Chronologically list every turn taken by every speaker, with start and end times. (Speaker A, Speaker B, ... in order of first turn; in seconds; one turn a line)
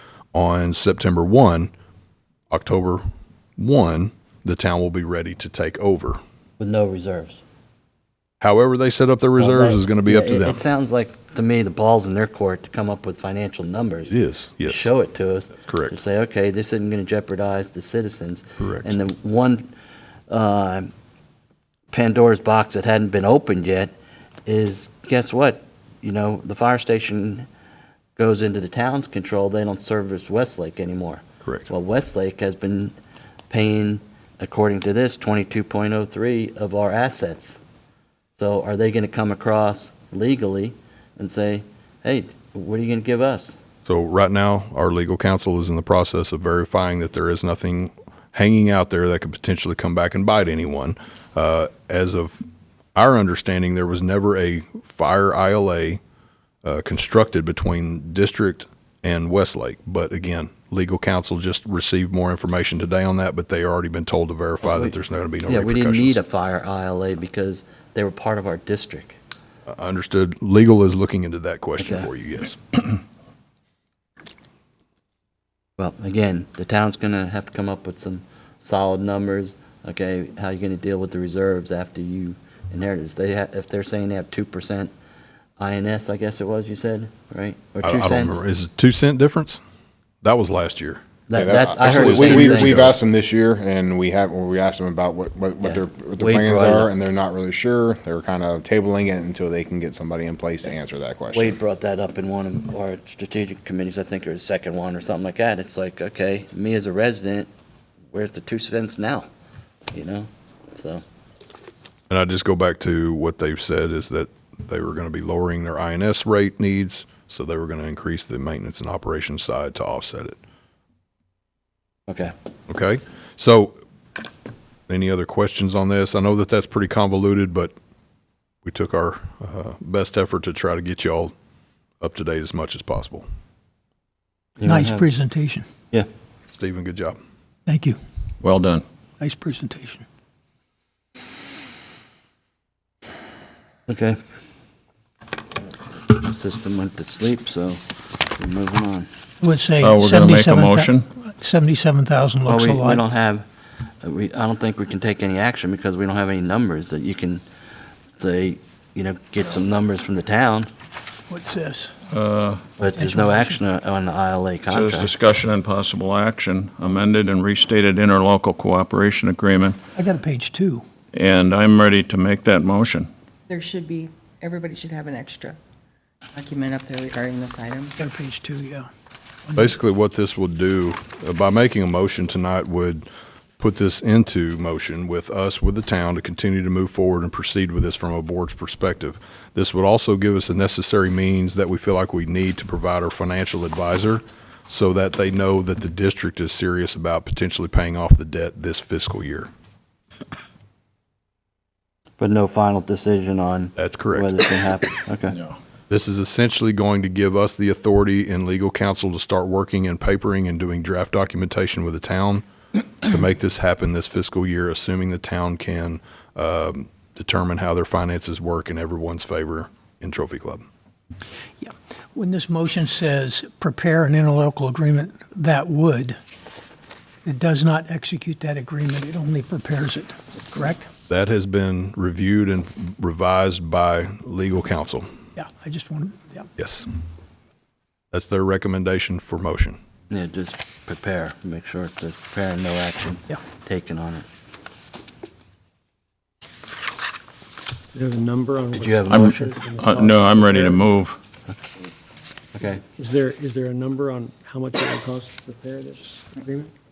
Speaker A: 0.3-1.7
Speaker A: 2.5-3.0
Speaker A: 3.6-6.2
Speaker B: 6.6-7.4
Speaker A: 8.4-10.6
Speaker B: 9.4-19.7
Speaker A: 14.1-14.9
Speaker A: 15.6-15.9
Speaker A: 18.6-18.9
Speaker B: 20.3-20.9
Speaker B: 21.9-23.9
Speaker B: 24.4-27.4
Speaker B: 28.2-32.9
Speaker B: 33.5-37.6
Speaker B: 38.4-43.5
Speaker A: 43.8-52.4
Speaker A: 52.9-56.0
Speaker A: 56.6-66.2
Speaker B: 64.6-64.9
Speaker B: 65.5-69.2
Speaker A: 69.7-72.6
Speaker B: 71.8-72.1
Speaker B: 75.8-84.9
Speaker B: 85.6-88.4
Speaker A: 87.8-89.6
Speaker A: 90.2-91.0
Speaker B: 91.3-92.9
Speaker C: 91.3-101.5
Speaker A: 91.8-92.9
Speaker B: 95.6-96.9
Speaker B: 101.3-107.5
Speaker B: 108.1-109.3
Speaker B: 109.9-111.0
Speaker A: 112.1-120.4
Speaker B: 122.1-122.3
Speaker A: 122.7-123.8
Speaker A: 124.9-127.7
Speaker A: 128.6-131.3
Speaker A: 132.0-133.2
Speaker B: 134.6-135.1
Speaker D: 134.7-135.6
Speaker A: 136.5-137.2
Speaker D: 137.7-138.0
Speaker E: 138.4-138.8
Speaker D: 139.2-140.0
Speaker B: 143.9-144.2
Speaker B: 146.1-147.8
Speaker B: 148.4-149.1
Speaker D: 149.4-153.0
Speaker E: 149.8-151.1
Speaker B: 152.4-153.4
Speaker B: 154.0-157.4
Speaker B: 158.2-160.7
Speaker D: 161.3-161.9
Speaker E: 162.1-162.7
Speaker B: 162.8-165.1
Speaker D: 163.0-163.6
Speaker E: 164.7-169.8
Speaker D: 169.9-170.8
Speaker E: 171.1-173.1
Speaker F: 173.5-175.6
Speaker F: 176.3-178.0
Speaker D: 178.0-178.9
Speaker A: 179.5-183.1
Speaker A: 183.6-199.5
Speaker B: 202.2-205.4
Speaker A: 203.8-204.3
Speaker A: 205.9-212.4
Speaker A: 213.0-220.6
Speaker D: 221.6-226.2
Speaker D: 227.2-230.9
Speaker A: 231.1-235.1
Speaker D: 235.4-236.4
Speaker A: 236.6-236.9
Speaker A: 238.1-239.8
Speaker B: 240.1-244.2
Speaker G: 247.9-250.8
Speaker B: 248.7-249.7
Speaker E: 249.1-251.2
Speaker B: 252.6-252.8
Speaker G: 252.9-256.7